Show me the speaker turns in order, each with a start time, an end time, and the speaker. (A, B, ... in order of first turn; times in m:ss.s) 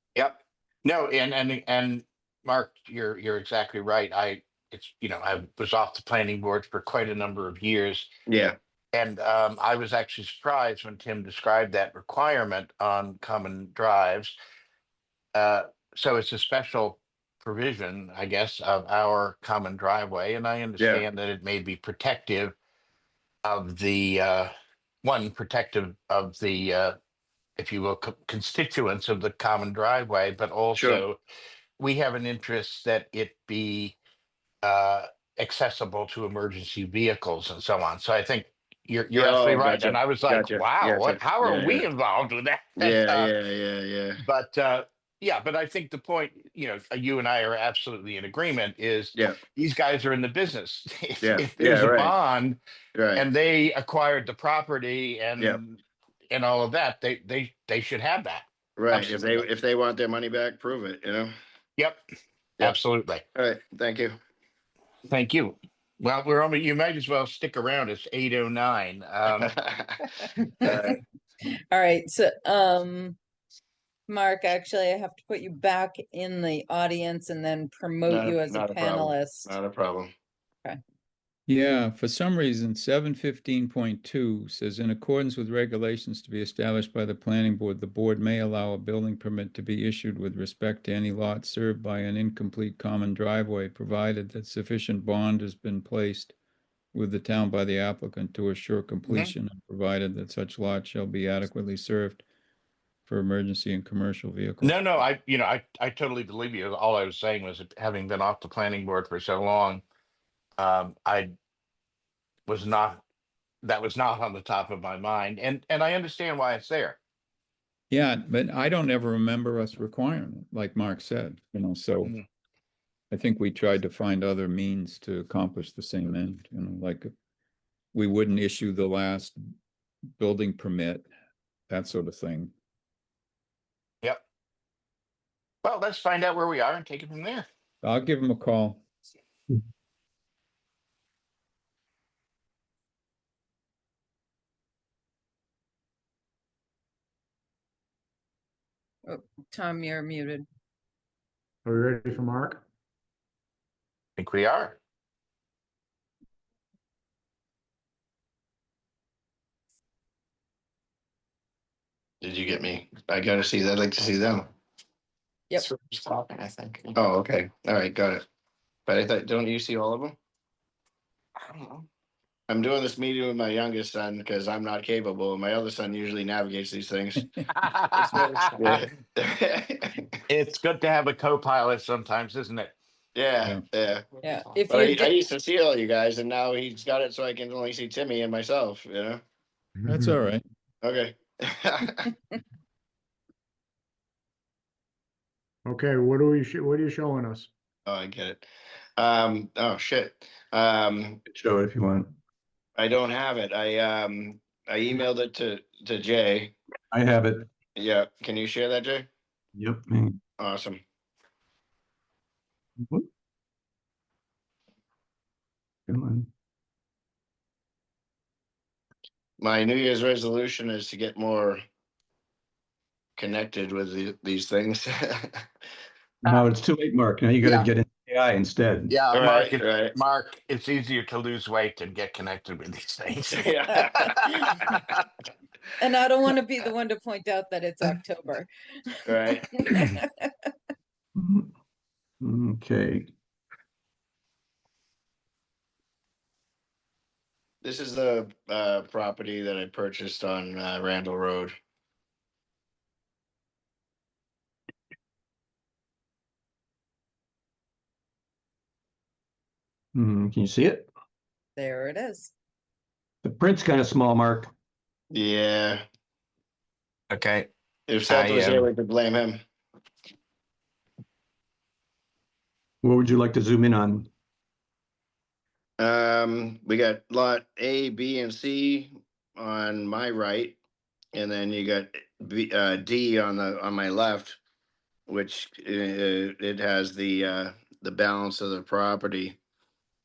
0:00.2-0:08.1 A
0:08.3-0:08.6 B
0:08.9-0:14.4 A
0:15.4-0:22.6 A
0:20.8-0:21.0 B
0:23.4-0:24.5 A
0:25.0-0:26.9 A
0:27.6-0:31.2 A
0:30.8-0:31.0 B
0:31.8-0:34.0 A
0:34.6-0:43.3 A
0:39.1-0:41.9 B
0:42.8-0:44.2 B
0:44.2-0:52.6 A
0:51.2-0:52.2 B
0:53.0-0:53.2 B
0:53.2-0:59.5 A
0:58.8-1:01.3 B
1:02.6-1:03.2 A
1:03.4-1:04.2 B
1:05.1-1:09.5 A
1:09.4-1:10.0 B
1:10.4-1:11.0 C
1:10.6-1:11.0 B
1:11.7-1:13.2 C
1:14.1-1:19.6 C
1:18.1-1:20.1 B
1:21.5-1:36.3 D
1:36.9-1:42.2 D
1:39.1-1:39.3 A
1:43.1-1:44.9 D
1:44.6-1:49.8 A
1:50.6-1:51.3 A
1:52.5-1:53.0 A
1:53.6-1:57.0 A
1:57.9-2:02.2 D
2:03.1-2:07.1 D
2:07.9-2:09.4 D
2:10.2-2:11.1 D
2:11.7-2:12.5 D
2:15.6-2:17.5 A
2:17.8-2:18.8 D
2:29.1-2:30.4 C
2:31.6-2:32.6 E
2:34.2-2:34.8 A
2:42.2-2:44.5 B
2:45.8-2:48.2 B
2:48.9-2:50.2 B
2:52.5-2:57.3 B
2:57.6-2:58.8 A
2:57.9-3:00.0 B
3:00.3-3:02.8 A
3:03.2-3:09.2 B
3:04.2-3:05.2 C
3:09.9-3:10.4 D
3:10.8-3:12.1 B
3:15.7-3:17.5 E
3:17.9-3:18.4 B
3:19.0-3:21.2 B
3:21.3-3:22.2 F
3:22.8-3:26.6 B
3:26.9-3:27.5 F
3:27.8-3:29.1 B
3:29.6-3:30.2 F
3:30.4-3:30.8 B
3:32.8-3:33.1 F
3:35.9-3:36.3 F
3:39.4-3:41.6 B
3:43.2-3:45.4 B
3:46.2-3:48.9 F
3:47.4-3:47.7 A
3:48.9-3:54.9 A
3:49.1-3:49.9 B
3:53.3-3:54.1 B
3:53.7-3:54.6 C
3:55.8-3:58.5 C
3:59.1-4:00.3 C
3:59.1-3:59.5 B
4:01.2-4:01.5 F
4:02.2-4:03.1 F
4:07.6-4:11.5 B
4:20.0-4:20.9 F
4:21.6-4:22.3 C
4:23.2-4:24.5 F
4:25.1-4:25.8 B
4:27.1-4:27.5 A
4:27.9-4:29.4 B
4:28.1-4:28.7 A
4:32.8-4:34.1 F
4:35.8-4:40.6 B
4:41.2-4:44.4 B
4:45.1-4:49.4 B